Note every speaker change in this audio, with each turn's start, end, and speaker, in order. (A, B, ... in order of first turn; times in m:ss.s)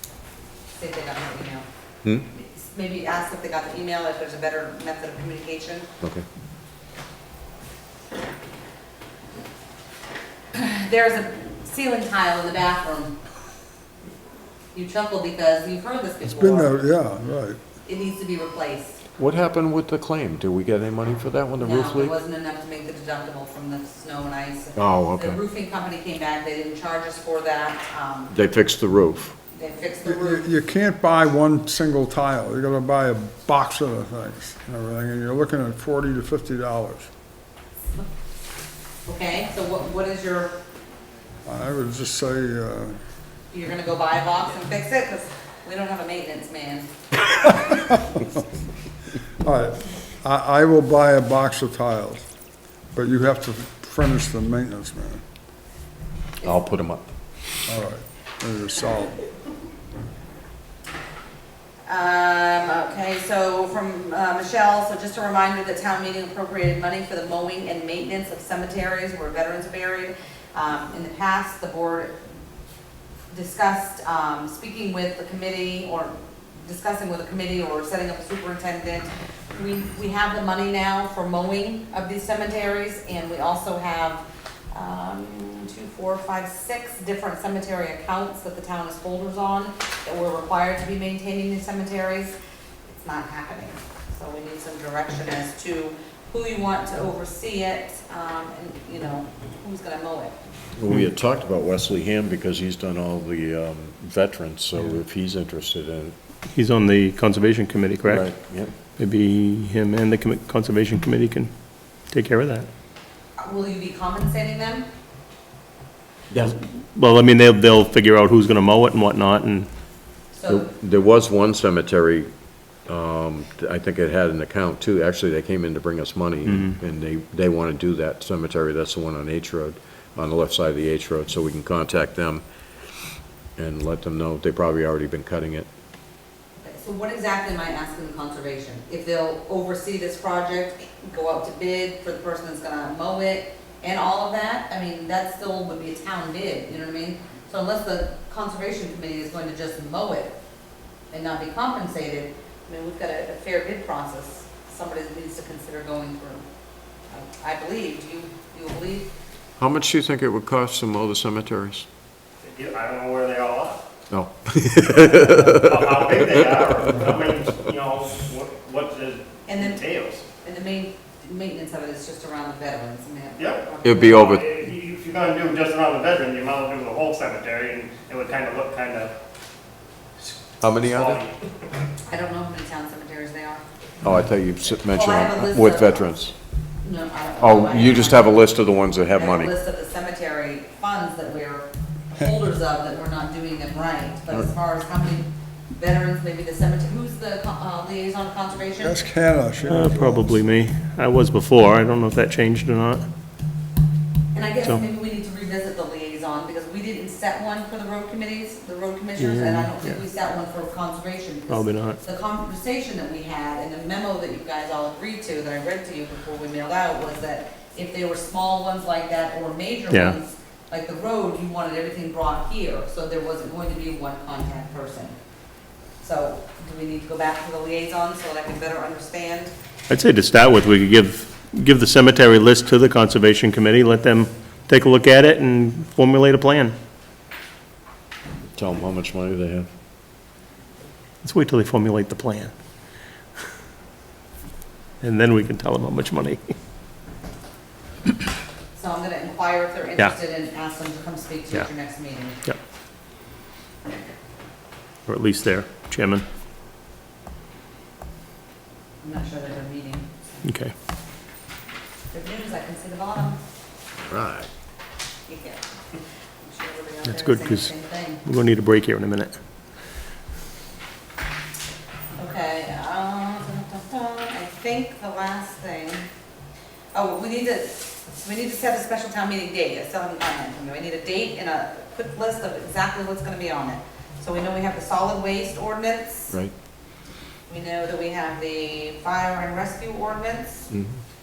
0:00.8-0:01.6 A
0:02.3-0:05.9 A
0:10.5-0:13.2 A
0:14.7-0:16.8 A
0:16.2-0:17.6 B
0:17.8-0:19.0 A
0:19.2-0:22.1 C
0:21.6-0:28.3 A
0:24.8-0:25.4 C
0:28.3-0:29.3 C
0:29.5-0:30.4 A
0:30.0-0:37.1 B
0:39.0-0:40.6 A
0:41.4-0:43.0 B
0:43.5-0:46.9 A
0:49.4-0:52.2 B
0:52.9-0:55.2 B
0:56.4-0:57.0 C
0:57.7-0:59.2 B
1:01.9-1:12.2 A
1:13.3-1:32.3 A
1:32.9-1:40.3 A
1:40.7-1:46.1 C
1:46.5-1:48.3 D
1:48.0-1:48.7 C
1:49.0-1:51.5 D
1:52.1-1:52.7 D
1:53.4-1:54.9 A
1:56.3-1:59.7 D
2:00.3-2:00.7 A
2:00.5-2:02.3 C
2:02.9-2:12.4 C
2:06.4-2:06.8 D
2:13.6-2:15.7 C
2:16.6-2:30.3 A
2:31.1-2:36.4 A
2:37.1-2:39.1 A
2:39.6-2:41.8 C
2:42.4-2:43.8 E
2:44.1-2:46.3 C
2:44.9-2:50.2 E
2:49.4-2:49.8 A
2:50.3-2:54.3 A
2:53.4-2:59.1 E
2:53.8-2:54.4 C
3:00.6-3:01.2 C
3:00.8-3:01.3 E
3:02.1-3:03.6 A
3:04.0-3:06.3 C
3:04.9-3:06.0 A
3:06.8-3:08.5 A
3:07.4-3:09.5 C
3:09.1-3:19.0 A
3:18.8-3:20.4 B
3:19.6-3:23.0 D
3:24.3-3:45.2 A
3:29.2-3:30.0 D
3:31.5-3:32.0 D
3:39.9-3:40.2 D
3:46.0-3:49.5 A
3:49.9-3:56.7 D
3:58.6-3:59.7 C
4:01.2-4:02.5 D
4:05.0-4:06.4 D
4:08.8-4:12.4 A
4:15.1-4:16.2 D
4:19.0-4:20.1 A
4:20.4-4:20.7 D
4:22.1-4:23.4 A
4:24.0-4:24.5 C
4:25.3-4:25.6 A
4:26.4-4:28.2 A
4:27.0-4:29.3 D
4:32.2-4:36.1 A
4:36.9-4:46.3 A
4:47.5-4:50.7 A